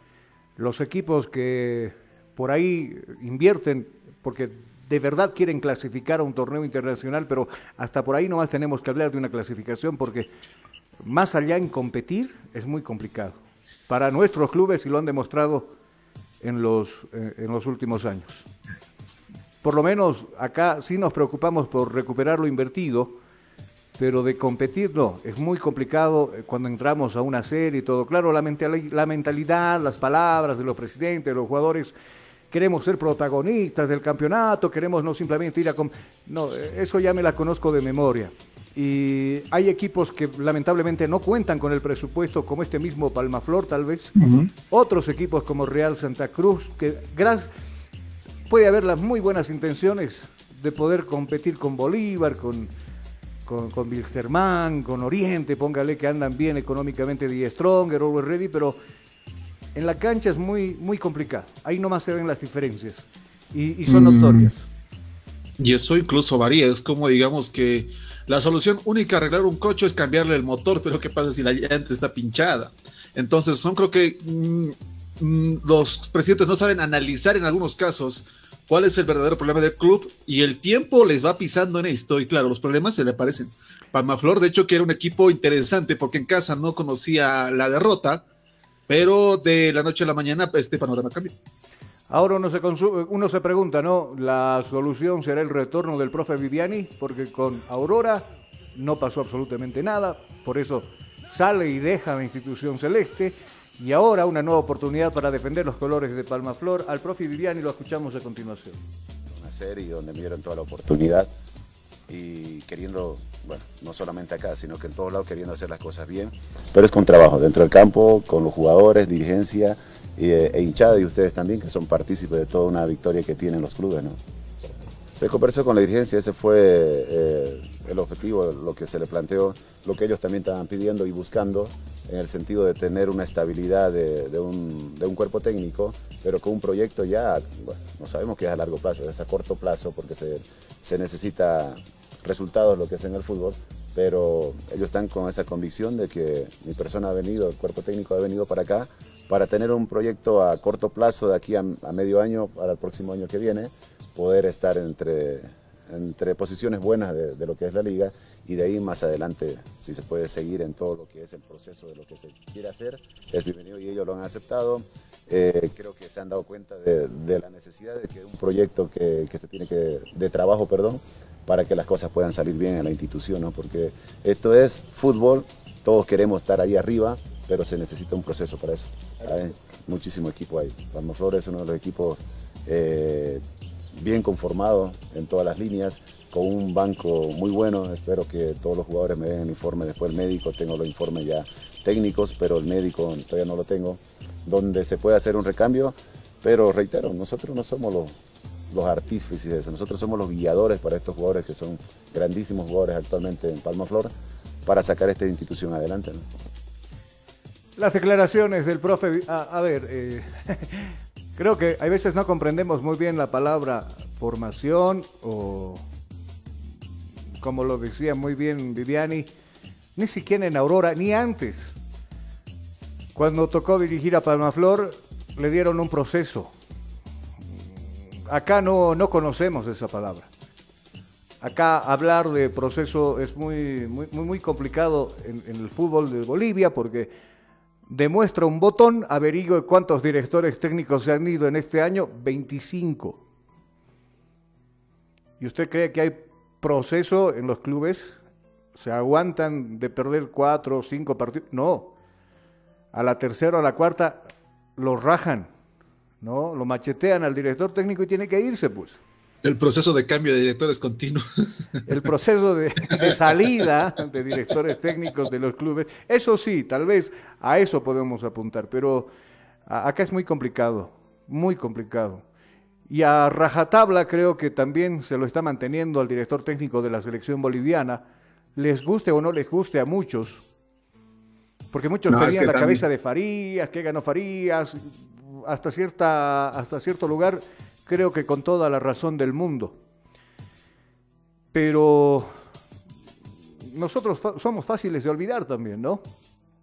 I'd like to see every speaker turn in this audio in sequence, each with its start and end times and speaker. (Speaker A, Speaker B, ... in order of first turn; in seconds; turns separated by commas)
Speaker A: 0.6-10.3, Speaker A: 11.0-15.7, Speaker A: 16.4-18.5, Speaker A: 19.6-23.2, Speaker A: 24.0-31.9, Speaker A: 32.5-44.2, Speaker B: 44.2-44.5, Speaker A: 44.7-47.5, Speaker A: 48.5-52.7, Speaker A: 53.5-58.8, Speaker A: 59.7-64.6, Speaker B: 63.9-64.5, Speaker B: 65.6-88.2, Speaker B: 88.9-91.3, Speaker A: 92.1-108.8, Speaker C: 109.3-111.3, Speaker C: 112.1-124.2, Speaker C: 125.1-183.4, Speaker C: 183.9-198.1, Speaker C: 198.7-204.1, Speaker C: 204.6-206.2, Speaker A: 207.8-215.8, Speaker A: 217.4-219.3, Speaker A: 220.0-221.8, Speaker A: 223.1-226.5, Speaker A: 228.2-230.3, Speaker A: 231.4-237.1, Speaker A: 237.9-243.2, Speaker A: 245.4-248.2, Speaker A: 248.7-251.9, Speaker A: 252.9-255.5, Speaker A: 256.2-259.0, Speaker B: 259.4-261.7, Speaker A: 261.9-269.1, Speaker A: 269.6-272.2, Speaker A: 272.9-278.0, Speaker A: 278.6-280.4, Speaker A: 281.7-289.8, Speaker B: 282.1-282.8, Speaker A: 291.5-292.3, Speaker A: 293.7-296.0